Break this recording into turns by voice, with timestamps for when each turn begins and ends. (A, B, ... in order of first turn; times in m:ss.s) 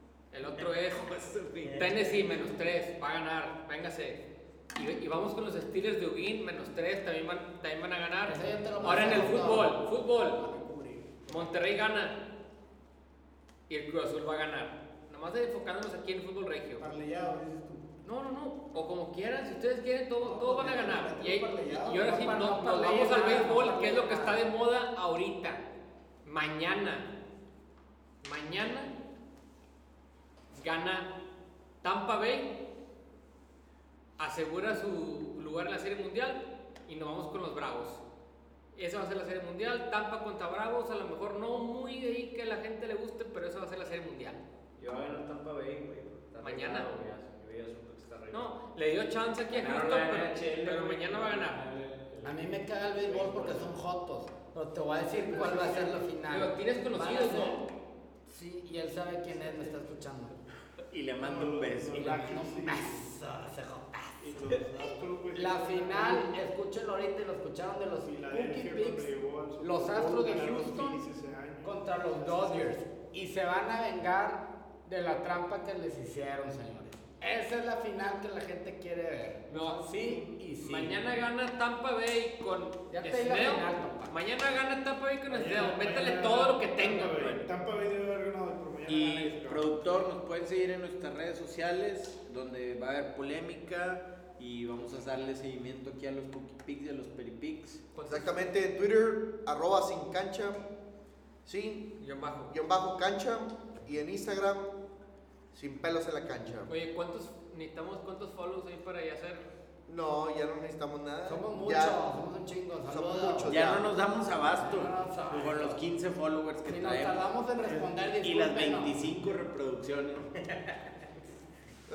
0:00.3-0:04.2 A
0:00.9-0:01.9 B
0:04.8-0:10.4 A
0:08.3-0:09.8 C
0:08.8-0:09.7 D
0:10.3-0:11.5 D
0:11.3-0:12.2 A
0:13.7-0:16.9 A
0:16.8-0:17.9 D
0:18.0-0:25.7 A
0:20.2-0:22.3 D
0:22.0-0:24.4 C
0:22.9-0:23.5 D
0:26.2-0:27.1 A
0:28.2-0:29.0 A
0:30.5-0:31.1 A
0:31.8-0:32.5 A
0:34.2-0:38.0 A
0:38.8-0:44.4 A
0:44.8-0:48.5 E
0:46.4-0:46.9 A
0:48.3-0:51.6 A
0:49.5-0:53.8 E
0:52.2-0:57.6 C
0:55.3-0:55.8 E
0:56.3-0:57.6 A
0:58.3-1:00.4 C
1:00.9-1:02.4 B
1:01.2-1:03.1 F
1:02.0-1:04.2 C
1:04.2-1:06.3 F
1:05.3-1:11.0 C
1:08.0-1:12.8 F
1:11.6-1:21.0 C
1:19.5-1:19.9 A
1:20.6-1:27.3 A
1:22.9-1:24.1 C
1:25.3-1:30.1 F
1:28.9-1:37.8 B
1:37.9-1:38.5 A
1:38.0-1:40.6 G
1:41.4-1:41.9 G
1:42.0-1:42.5 A
1:42.5-1:44.7 G
1:45.5-1:46.7 G
1:46.7-1:49.4 A
1:49.9-1:52.0 G
1:51.3-1:53.6 C
1:52.9-1:53.9 G
1:53.5-1:57.3 B
1:54.4-1:55.8 C
1:56.7-1:59.3 C
1:58.2-2:00.4 B